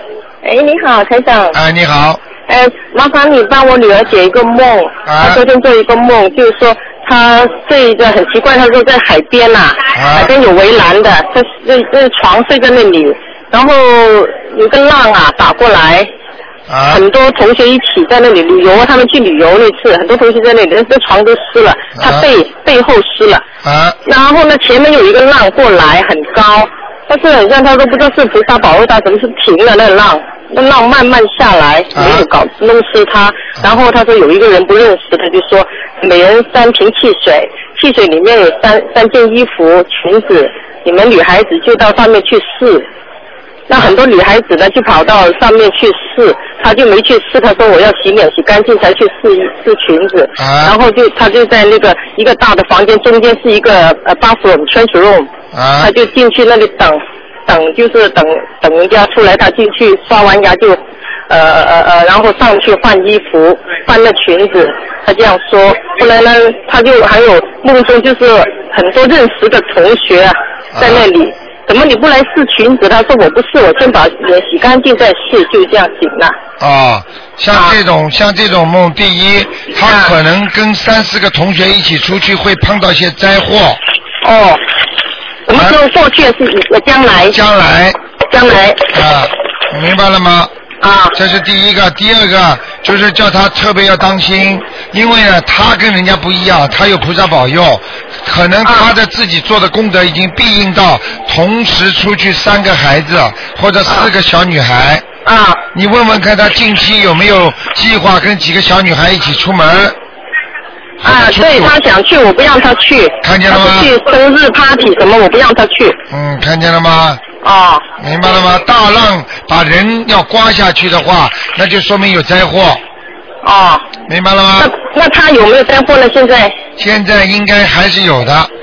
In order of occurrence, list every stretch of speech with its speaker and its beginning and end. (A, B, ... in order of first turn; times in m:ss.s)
0:00.4-0:01.6 A
0:01.5-0:02.2 B
0:02.5-0:16.1 A
0:05.0-0:05.4 B
0:09.9-0:10.3 B
0:16.7-0:17.0 B
0:16.9-0:23.4 A
0:22.0-0:22.3 B
0:23.6-0:24.0 B
0:24.0-0:42.8 A
0:31.9-0:32.3 B
0:43.7-1:16.4 A
0:50.4-0:50.8 B
0:55.5-0:55.9 B
1:10.7-1:11.1 B
1:16.6-1:23.8 B
1:19.8-1:20.1 A
1:24.2-1:24.6 A
1:25.5-1:27.4 A
1:25.5-1:25.8 B
1:27.2-1:28.0 B
1:28.3-1:28.9 A
1:28.9-1:30.5 B
1:30.8-1:31.2 A
1:31.1-1:45.1 B
1:38.6-1:38.9 A
1:45.2-1:45.6 A
1:45.7-1:50.0 B
1:51.0-1:51.8 B
1:51.0-1:56.0 A
1:53.2-1:53.9 B
1:56.1-1:57.2 B
1:57.4-1:57.9 A
1:58.0-2:02.8 B
2:03.4-2:03.9 A
2:04.1-2:04.7 B
2:04.6-2:06.6 A
2:06.8-2:08.5 B